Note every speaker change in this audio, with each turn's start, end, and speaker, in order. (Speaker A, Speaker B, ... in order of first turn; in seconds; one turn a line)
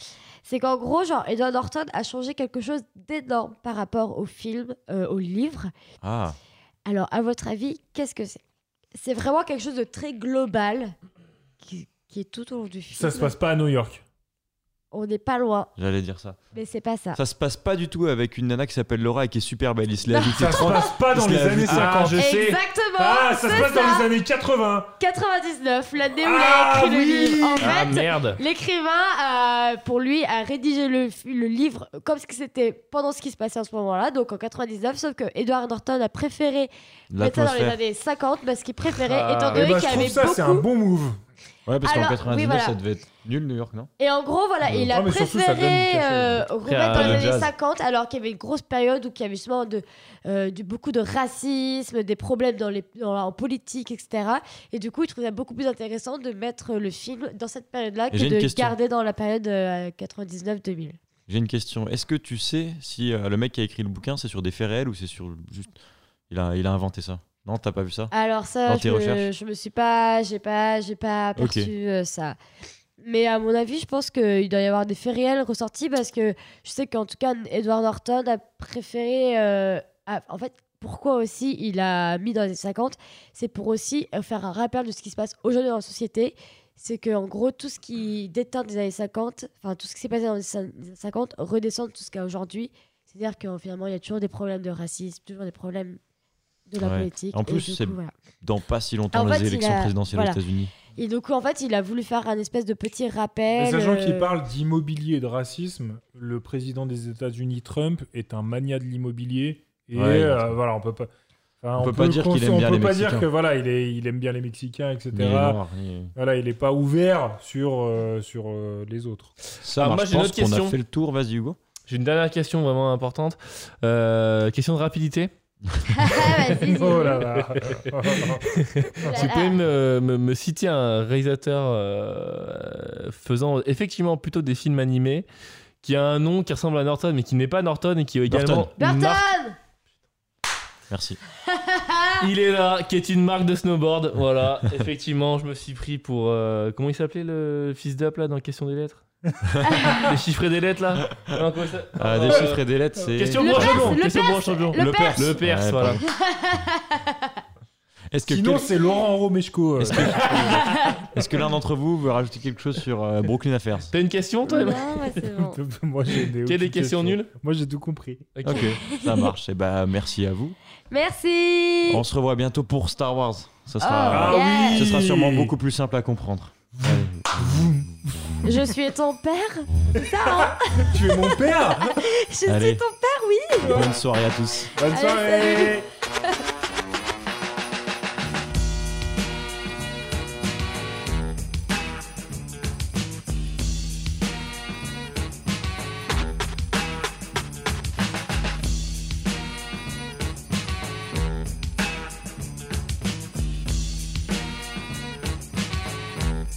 Speaker A: 0.4-5.7
Speaker B: 6.0-6.3
Speaker A: 6.8-8.4
Speaker A: 8.9-10.9
Speaker A: 11.6-13.3
Speaker C: 12.9-14.0
Speaker A: 14.9-15.7
Speaker B: 15.8-16.4
Speaker A: 16.5-17.2
Speaker B: 17.1-22.1
Speaker A: 20.1-20.9
Speaker C: 20.3-22.2
Speaker D: 21.6-22.6
Speaker A: 22.1-24.1
Speaker C: 23.0-24.9
Speaker A: 25.0-40.6
Speaker C: 26.2-27.8
Speaker D: 27.6-28.4
Speaker B: 37.1-37.8
Speaker D: 39.0-40.0
Speaker C: 39.5-41.2
Speaker B: 41.6-43.9
Speaker A: 41.8-42.8
Speaker A: 44.0-61.0
Speaker B: 44.6-44.9
Speaker C: 44.9-46.5
Speaker D: 46.6-47.5
Speaker B: 46.9-47.3
Speaker B: 58.1-58.7
Speaker B: 61.3-65.7
Speaker B: 66.3-68.1
Speaker A: 68.1-72.4
Speaker B: 68.7-69.3
Speaker B: 71.3-71.7
Speaker A: 73.0-96.0
Speaker A: 96.7-98.1
Speaker B: 96.8-100.7
Speaker A: 99.1-100.4
Speaker A: 100.9-104.3
Speaker C: 103.5-111.1
Speaker B: 109.9-110.5
Speaker C: 111.6-115.6
Speaker B: 111.8-113.3
Speaker B: 115.1-116.1
Speaker C: 116.1-119.3
Speaker B: 119.6-121.6
Speaker D: 119.8-120.8
Speaker D: 121.9-125.3
Speaker A: 125.9-127.2
Speaker C: 126.6-128.5
Speaker D: 128.4-135.3
Speaker A: 128.9-129.6
Speaker C: 129.0-129.2
Speaker D: 135.8-139.3
Speaker B: 138.3-138.7
Speaker A: 138.8-139.6
Speaker B: 140.9-141.2
Speaker A: 141.5-142.2
Speaker D: 142.2-149.0
Speaker A: 149.7-150.0
Speaker D: 150.0-156.0
Speaker B: 151.0-154.0
Speaker A: 153.3-155.4
Speaker B: 154.7-156.0
Speaker A: 156.0-157.4
Speaker B: 158.1-158.7
Speaker C: 158.3-160.7
Speaker B: 159.8-163.9
Speaker A: 160.7-160.9
Speaker D: 163.9-165.0
Speaker A: 164.4-165.6
Speaker C: 165.2-168.3
Speaker D: 166.3-167.3
Speaker D: 168.4-168.7
Speaker B: 168.4-170.6
Speaker A: 168.5-169.3
Speaker A: 170.9-172.0
Speaker B: 171.9-178.5
Speaker A: 173.8-174.9
Speaker C: 174.1-175.5
Speaker C: 176.7-178.5
Speaker A: 178.4-183.8
Speaker C: 180.4-182.0
Speaker B: 182.4-182.8
Speaker B: 183.6-184.7
Speaker C: 183.6-183.9
Speaker C: 184.8-185.8
Speaker A: 184.8-186.4